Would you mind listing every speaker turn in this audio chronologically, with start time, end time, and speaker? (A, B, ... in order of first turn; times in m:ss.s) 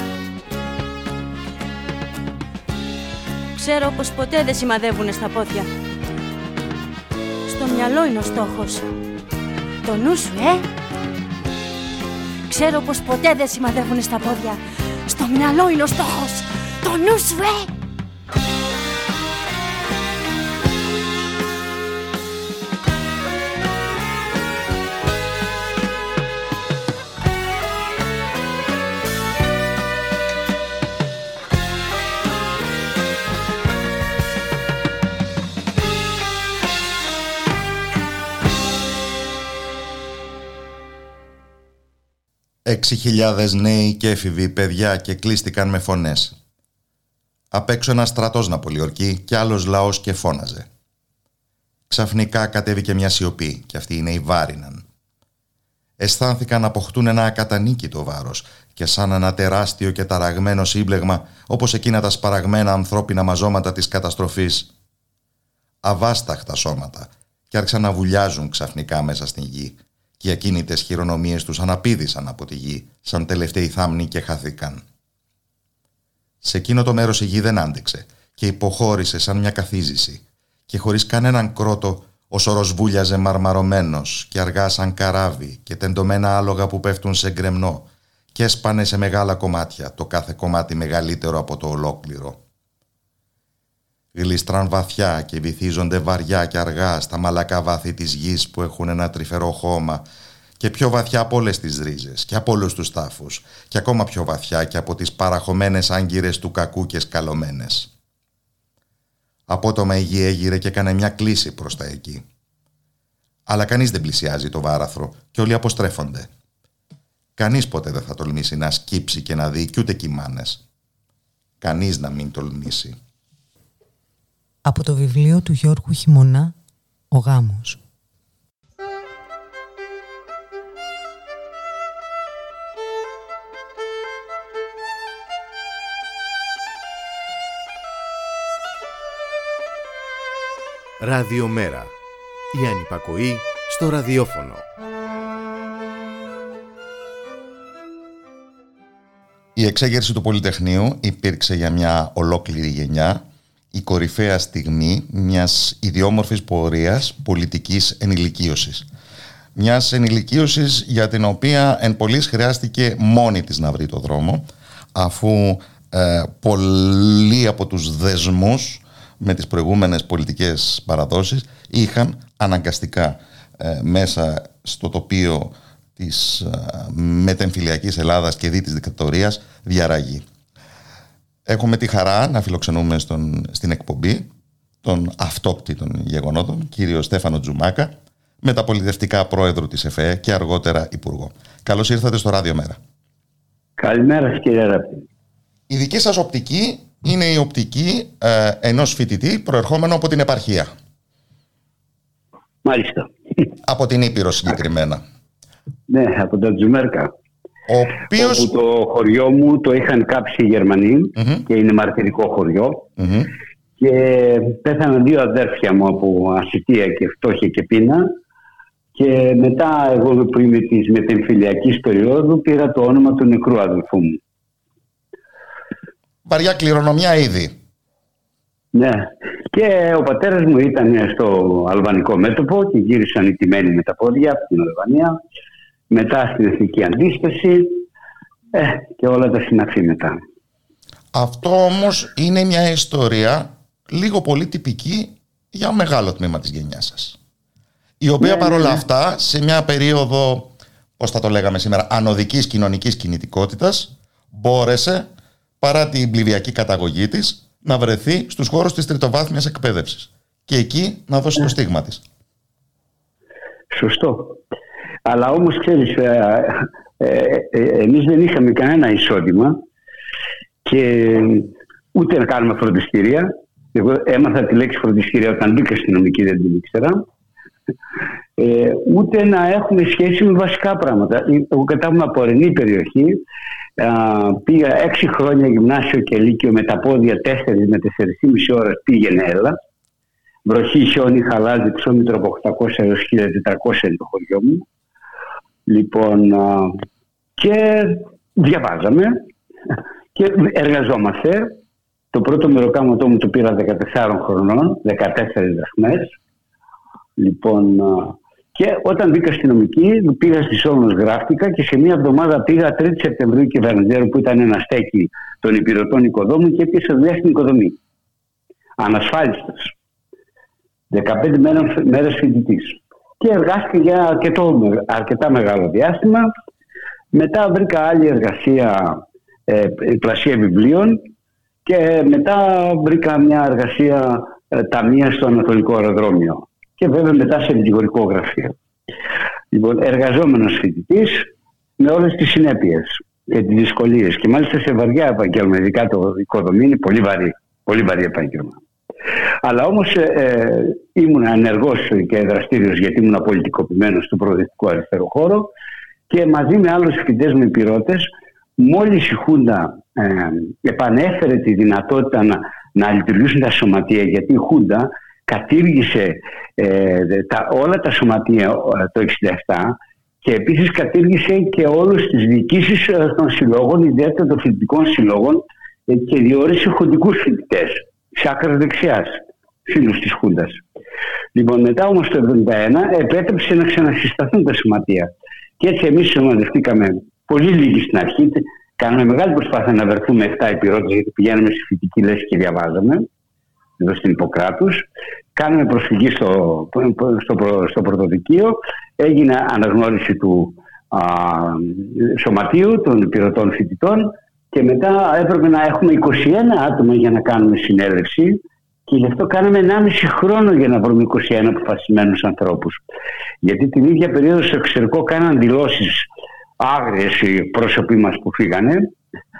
0:03.6-0:05.7 A
0:07.5-0:08.9 A
0:09.8-0:10.6 A
0:12.5-0:17.7 A
0:42.7-0:46.4 B
0:47.5-0:50.7 B
0:51.9-0:54.8 B
0:56.0-1:04.7 B
1:05.8-1:14.8 B
1:16.4-1:32.4 B
1:34.2-1:40.0 B
1:40.6-1:47.9 B
1:49.5-1:52.2 B
1:53.5-1:56.3 B
1:57.4-2:00.6 B
2:01.6-2:03.0 B
2:04.6-2:06.5 C
2:07.1-2:07.8 C
2:21.0-2:21.9 D
2:22.5-2:24.6 D
2:29.5-2:38.9 B
2:39.6-3:00.2 B
3:01.5-3:04.3 B
3:04.8-3:12.8 B
3:13.8-3:15.0 E
3:15.7-3:20.7 B
3:22.6-3:23.1 E
3:23.6-3:25.0 B
3:25.9-3:27.1 E
3:27.7-3:28.5 B
3:28.2-3:32.9 E
3:33.0-3:33.3 B
3:33.8-3:38.1 E
3:39.0-3:44.2 E
3:46.2-3:47.5 B
3:48.7-3:55.2 E
3:55.9-3:57.8 E
3:58.5-4:00.2 E
4:01.1-4:07.2 B
4:08.0-4:15.1 B
4:08.2-4:08.8 E
4:15.6-4:22.0 B
4:23.7-4:24.4 E
4:25.0-4:29.6 E
4:30.6-4:37.0 E
4:38.4-4:43.2 E
4:43.8-4:49.5 E
4:50.4-4:54.6 E
4:55.7-4:56.7 E
4:57.4-4:59.2 E
5:00.2-5:01.5 E
5:02.1-5:06.2 E
5:07.2-5:17.8 E
5:18.8-5:19.7 E
5:20.9-5:26.3 E
5:27.1-5:31.0 E
5:31.7-5:38.6 E
5:39.5-5:48.6 E
5:49.4-5:55.5 E
5:56.1-5:58.1 E
5:58.6-6:20.6 E
6:21.3-6:33.1 E
6:33.8-6:34.8 E
6:35.4-6:52.8 E
6:53.4-6:56.1 E
6:56.6-6:58.9 E